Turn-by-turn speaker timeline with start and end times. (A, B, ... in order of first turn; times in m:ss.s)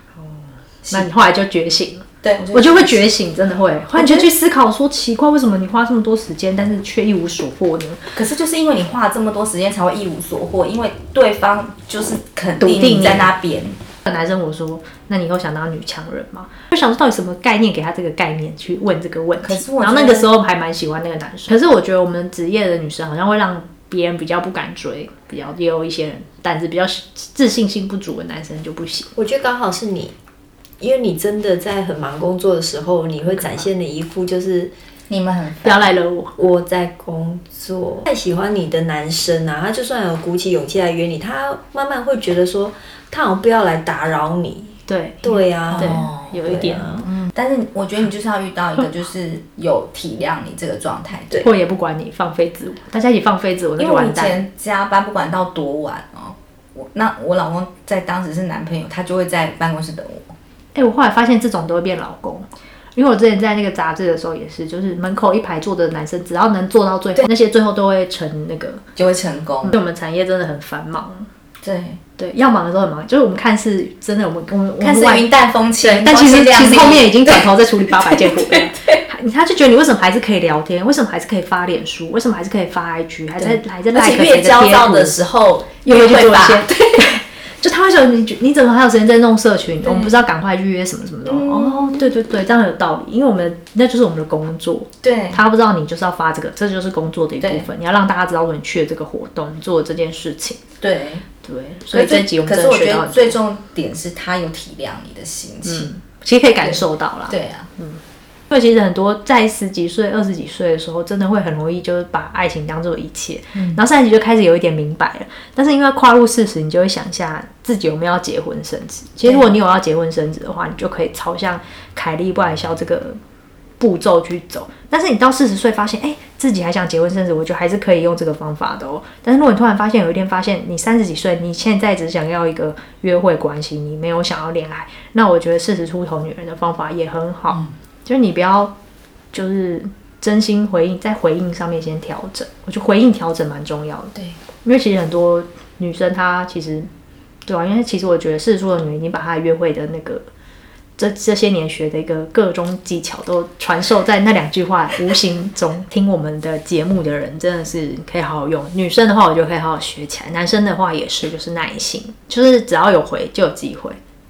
0:00.2-0:08.1 A
0:00.8-0:01.1 B
0:02.2-0:03.1 B
0:03.9-0:04.3 B
0:08.1-0:13.8 B
0:12.6-0:13.3 A
0:14.0-0:29.1 A
0:19.4-0:20.3 B
0:29.2-0:30.1 C
0:30.8-0:34.7 C
0:33.2-0:33.6 A
0:35.1-0:35.9 B
0:35.6-0:36.3 A
0:36.4-0:47.1 C
0:44.9-0:46.9 A
0:45.7-0:46.3 B
0:47.0-0:51.4 B
0:51.4-0:54.4 A
0:53.8-1:00.3 B
1:00.7-1:08.8 A
1:09.0-1:09.8 B
1:09.6-1:11.3 A
1:11.6-1:12.0 B
1:12.2-1:15.2 A
1:14.8-1:18.8 B
1:15.8-1:25.2 A
1:23.4-1:27.2 B
1:25.8-1:40.6 A
1:29.8-1:30.2 B
1:31.2-1:32.1 B
1:35.0-1:35.4 B
1:37.4-1:37.7 B
1:40.8-1:41.2 B
1:41.4-1:43.4 A
1:41.9-1:45.9 B
1:45.6-2:03.2 A
1:46.6-1:47.7 B
1:53.5-1:53.8 B
2:03.8-2:18.7 A
2:19.3-2:26.9 A
2:27.4-2:30.2 A
2:31.0-2:44.0 A